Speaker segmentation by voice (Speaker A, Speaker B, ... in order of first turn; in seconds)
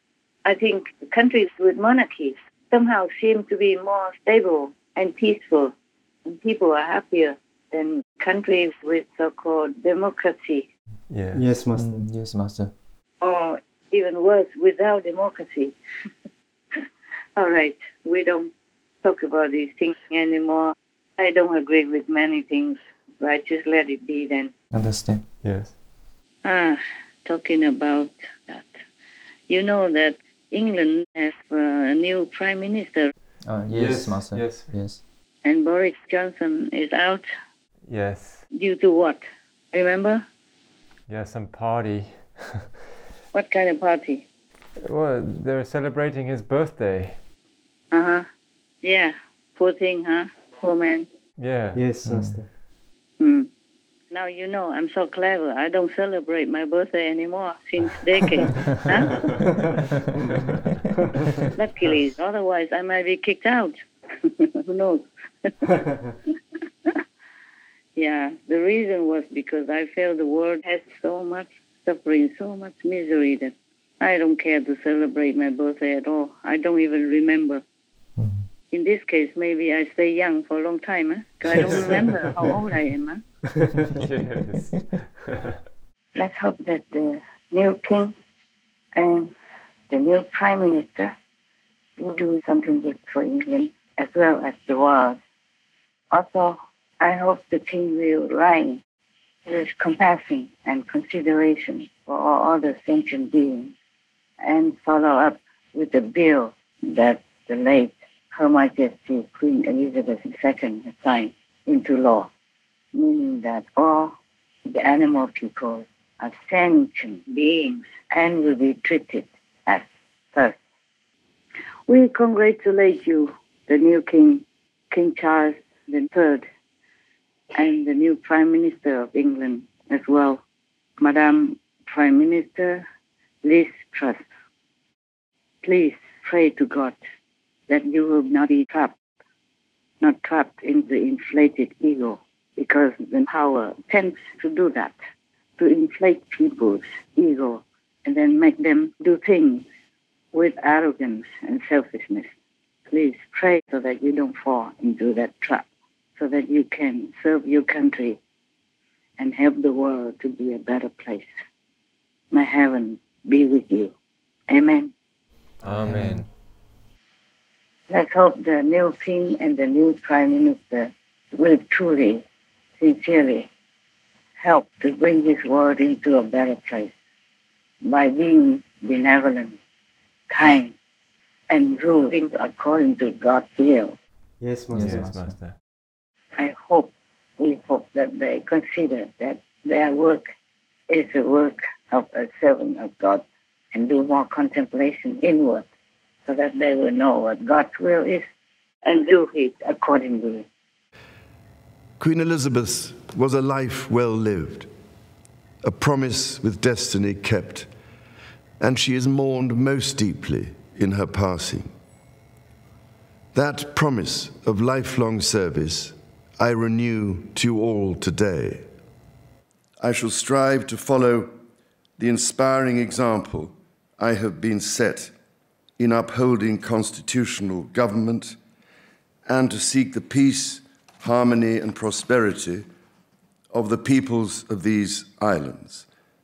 Speaker A: 0.4-5.7, 6.2-10.7, 13.2-15.7, 17.4-18.5, 19.0-24.5, 26.4-28.8, 29.5-33.1, 35.4-37.2, 38.5-40.2, 43.3-44.2, 47.9-48.2, 48.8-51.1, 53.2-53.5, 54.1-59.3, 61.5-65.5, 68.0-77.6, 78.7-83.2, 86.1-88.1, 88.9-89.3, 89.9-91.1, 92.0-95.2, 96.1-98.8, 99.5-103.7, 104.4-112.3, 112.9-114.1, 114.7-120.6, 121.9-126.4, 127.5-130.4, 131.0-132.8, 133.4-134.2, 135.6-137.0, 137.7-138.9, 140.0-144.9, 145.6-149.6, 150.3-152.3, 152.9-155.6, 156.2-158.2, 159.2-161.3, 162.3-163.9, 164.5-164.9, 167.9-172.2, 172.8-173.5, 174.4-176.9, 177.8-179.6, 180.3-180.7, 181.5-183.9, 186.3-190.3, 190.9-195.7, 196.3-198.2, 198.8-200.4
Speaker B: 11.1-11.6, 25.4-25.8, 33.7-34.8, 37.8-38.5, 41.1-42.7, 44.8-47.2, 51.4-51.9, 81.5-82.0, 83.9-85.6, 165.6-166.3, 184.7-185.6
Speaker C: 11.3-12.1, 51.7-52.5, 59.4-59.6, 184.4-185.3
Speaker D: 11.7-12.7, 24.7-25.3, 33.4-35.0, 52.0-52.4, 78.2-78.5, 165.6-166.3, 184.7-185.4
Speaker E: 202.0-204.7, 205.6-207.7, 208.6-211.7, 213.3-218.7, 219.8-221.3, 222.0-225.1, 225.8-228.4, 229.2-232.7, 233.5-235.9